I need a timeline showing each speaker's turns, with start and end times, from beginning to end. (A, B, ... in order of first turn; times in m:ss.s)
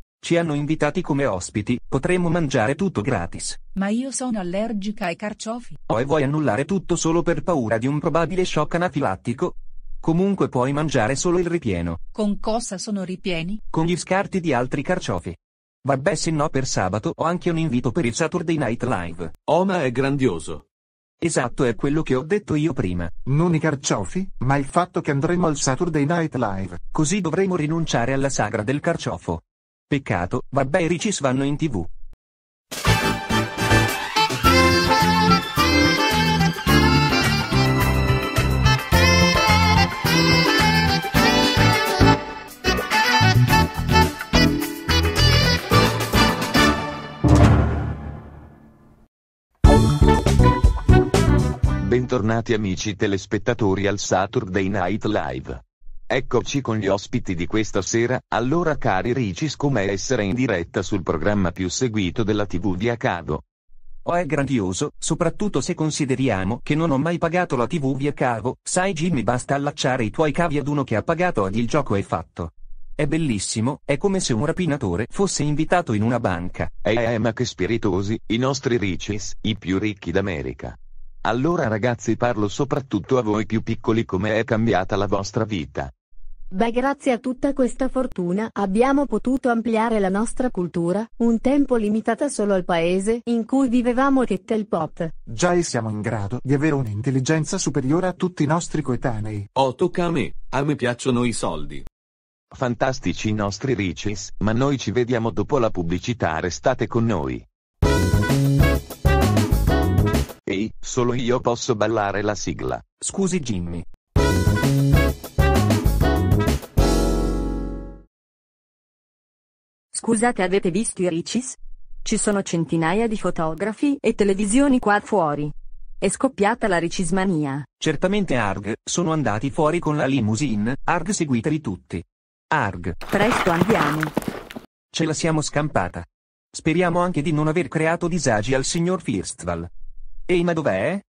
0:00.2-0:03.6 A
0:03.7-0:05.8 B
0:05.9-0:12.0 A
0:12.1-0:13.6 B
0:13.7-0:19.3 A
0:19.5-0:20.6 C
0:21.2-0:23.1 A
0:23.2-0:26.8 D
0:26.9-0:31.9 A
0:51.8-1:03.4 E
1:04.0-1:16.7 A
1:16.8-1:25.9 E
1:26.5-1:35.1 F
1:35.3-1:39.5 D
1:39.6-1:41.8 C
1:42.5-1:47.4 E
1:50.4-1:52.8 E
1:53.0-1:53.8 A
1:59.9-2:07.6 G
2:07.8-2:13.0 A
2:13.1-2:14.1 G
2:14.9-2:19.7 A
2:20.3-2:21.0 A